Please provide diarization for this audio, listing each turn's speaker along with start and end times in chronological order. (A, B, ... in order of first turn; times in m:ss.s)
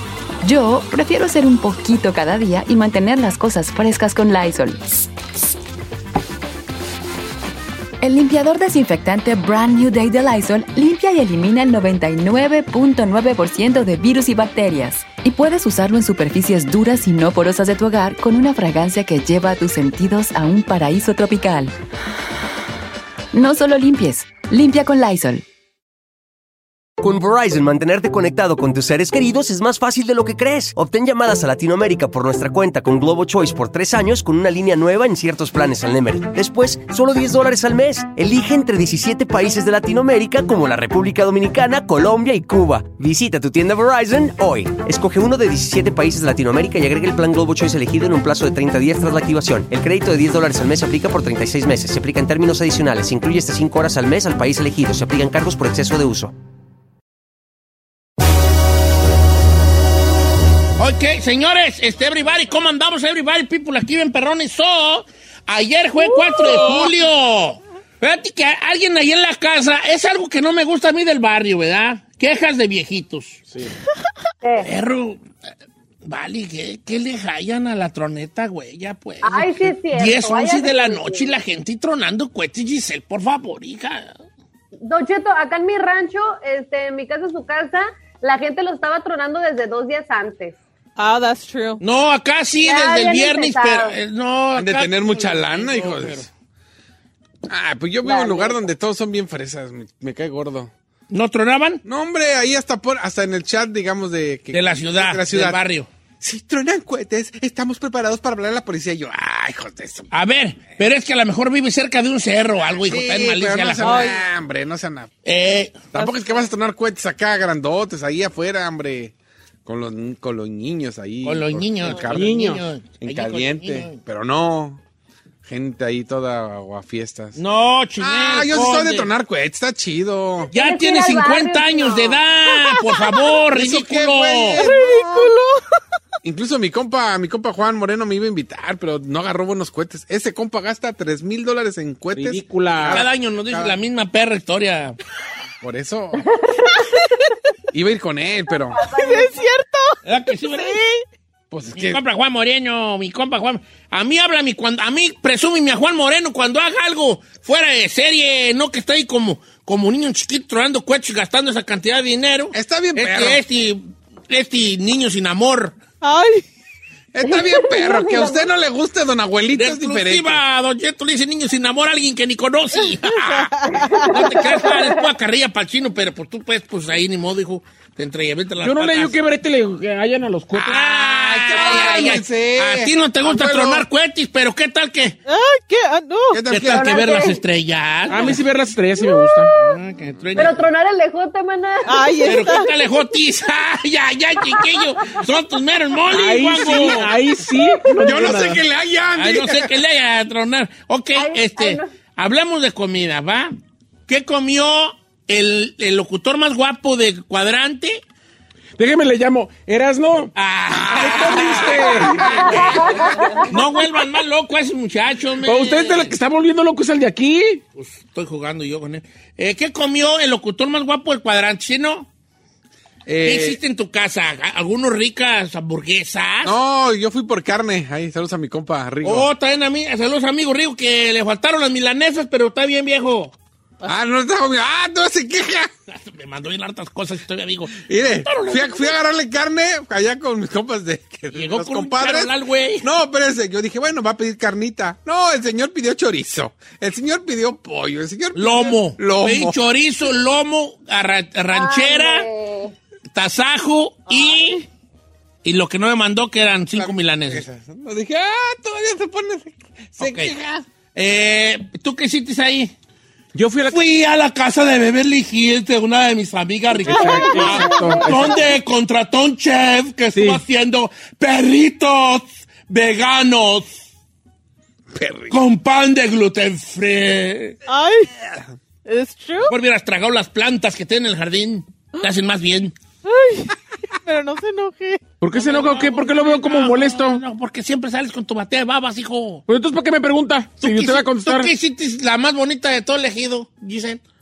0:00.4-0:05.1 A
0:08.0-0:21.7 A
0:23.3-0:25.4 A
0:27.0-0:56.3 B
1:00.8-1:13.4 C
1:06.0-1:06.7 D
1:06.5-1:06.8 E
1:14.4-1:14.7 D
1:14.6-1:15.2 C
1:16.0-1:24.2 C
1:19.2-1:21.3 D
1:24.8-1:30.6 D
1:31.0-1:31.8 F
1:31.8-1:36.3 C
1:32.6-1:34.0 D
1:34.5-1:36.2 E
1:37.5-1:40.7 E
1:38.0-1:38.7 D
1:41.1-1:41.8 C
1:41.8-1:45.6 E
1:44.5-1:45.9 C
1:46.2-1:50.1 E
1:50.1-1:54.1 C
1:52.6-1:55.1 E
1:53.8-1:54.2 F
1:55.2-1:55.8 C
1:55.9-1:59.1 E
1:55.9-1:56.4 F
1:59.6-2:04.8 E
2:01.2-2:04.0 C
2:02.1-2:02.6 G
2:05.4-2:07.4 E
2:07.4-2:09.1 C
2:08.0-2:10.5 E
2:10.5-2:12.2 D
2:10.5-2:14.6 C
2:13.5-2:15.3 E
2:14.6-2:15.6 F
2:16.2-2:23.8 E
2:22.1-2:23.0 G
2:22.8-2:25.0 C
2:25.6-2:26.3 E
2:26.5-2:26.8 D
2:27.7-2:28.8 E
2:28.7-2:29.4 D
2:28.8-2:30.0 F
2:30.0-2:31.0 C
2:31.5-2:32.0 E
2:31.7-2:45.8 C
2:42.5-2:43.4 E
2:46.0-2:46.4 F
2:47.1-2:50.4 E
2:47.2-2:48.4 D
2:49.5-2:53.5 C
2:53.1-2:54.2 F
2:53.8-2:55.0 D
2:54.1-2:59.2 C
2:58.6-3:00.8 G
3:00.5-3:03.8 E
3:00.6-3:05.2 C
3:05.3-3:06.4 F
3:06.3-3:07.0 E
3:06.5-3:08.4 C
3:06.6-3:07.4 D
3:08.1-3:09.5 G
3:09.0-3:09.5 D
3:09.5-3:10.6 C
3:10.4-3:12.6 D
3:11.8-3:12.7 F
3:12.2-3:17.1 C
3:16.1-3:18.6 G
3:18.0-3:19.7 E
3:19.1-3:23.5 C
3:21.1-3:21.9 D
3:24.1-3:28.0 C
3:28.8-3:30.3 G
3:30.3-3:36.1 C
3:30.7-3:33.1 E
3:30.9-3:32.9 G
3:32.4-3:33.1 D
3:35.4-3:37.6 G
3:37.7-3:42.1 C
3:43.0-3:43.6 E
3:43.2-3:46.6 C
3:46.4-3:49.3 E
3:49.0-3:53.3 C
3:53.8-3:55.7 E
3:55.9-3:59.0 C
3:57.8-4:09.6 E
4:01.3-4:02.9 C
4:08.4-4:12.2 C
4:11.5-4:12.7 D
4:13.1-4:14.6 C
4:14.1-4:14.6 F
4:15.4-4:17.4 C
4:16.7-4:20.6 E
4:20.0-4:20.4 C
4:20.9-4:22.7 C
4:23.3-4:23.8 G
4:23.7-4:33.8 C
4:26.8-4:28.4 G
4:26.9-4:28.4 D
4:26.9-4:27.6 F
4:30.1-4:30.4 G
4:34.9-4:35.3 E
4:35.3-4:37.6 C
4:37.7-4:38.1 F
4:38.8-4:39.5 F
4:39.5-4:42.7 C
4:43.0-4:45.0 F
4:45.2-4:47.2 G
4:45.3-4:49.4 C
4:49.5-4:51.5 G
4:50.6-4:54.0 C